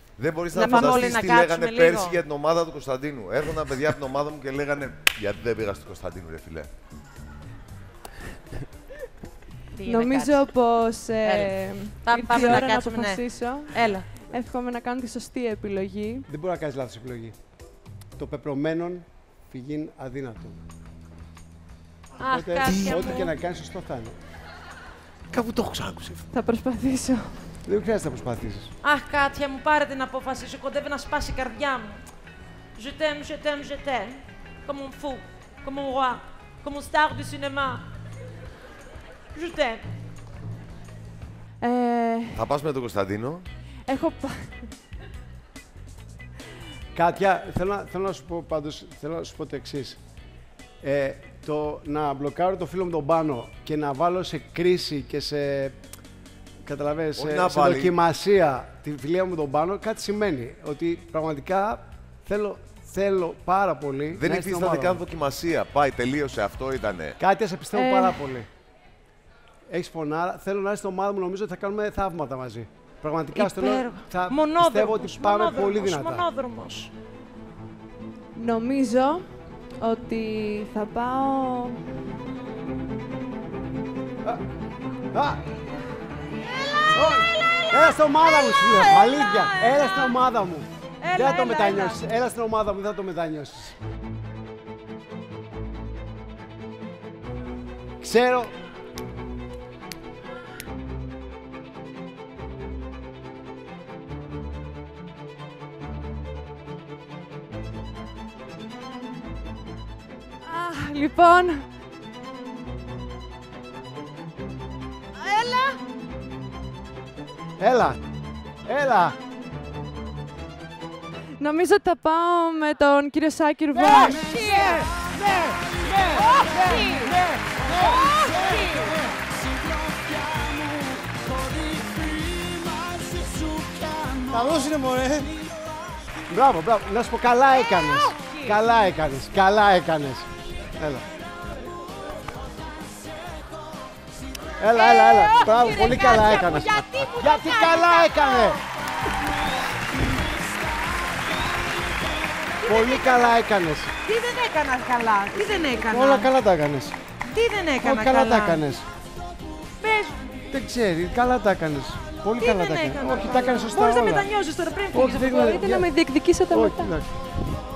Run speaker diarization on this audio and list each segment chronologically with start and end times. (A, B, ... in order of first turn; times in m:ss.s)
0:00.2-0:06.7 A
0:00.5-0:02.2 B
0:00.6-0:01.1 C
0:09.8-0:10.5 B
0:09.8-0:16.3 C
0:11.2-0:14.1 B
0:16.3-0:17.3 D
0:18.2-0:20.6 D
0:22.2-0:23.3 B
0:22.2-0:24.2 D
0:22.6-0:23.1 A
0:25.3-0:26.2 A
0:26.3-0:27.4 C
0:27.6-0:28.7 D
0:28.8-0:32.0 B
0:32.7-0:37.8 B
0:39.3-0:39.8 B
0:41.6-0:42.4 C
0:42.3-0:43.5 A
0:43.8-0:44.7 C
0:46.9-0:50.0 D
0:50.8-0:55.8 D
0:56.6-1:05.0 D
0:57.2-0:57.9 A
1:04.1-1:07.2 A
1:07.2-1:08.5 D
1:07.7-1:08.2 C
1:09.7-1:16.2 D
1:13.3-1:16.9 B
1:18.3-1:19.2 C
1:19.8-1:21.8 C
1:25.1-1:25.4 D
1:26.6-1:26.9 B
1:26.9-1:33.8 D
1:28.1-1:30.1 B
1:31.0-1:32.0 B
1:38.0-1:38.5 D
1:50.4-1:51.6 C
1:55.2-1:55.8 B
1:57.6-1:58.0 D
1:58.6-1:59.2 D
2:01.4-2:04.3 C
2:03.7-2:09.1 B
2:06.1-2:07.2 D
2:09.9-2:15.3 D
2:16.3-2:21.1 D
2:17.6-2:18.6 B
2:24.6-2:28.6 D
2:24.7-2:28.6 B
2:32.6-2:33.4 B
2:32.6-2:33.9 D
2:34.0-2:36.3 B
2:35.7-2:37.0 D
2:37.3-2:38.6 B
2:37.8-2:38.8 D
2:39.8-2:40.2 B
2:40.5-2:44.3 D
2:42.4-2:45.6 B
2:44.9-2:45.9 D
2:45.3-2:47.0 C
2:46.5-2:47.3 D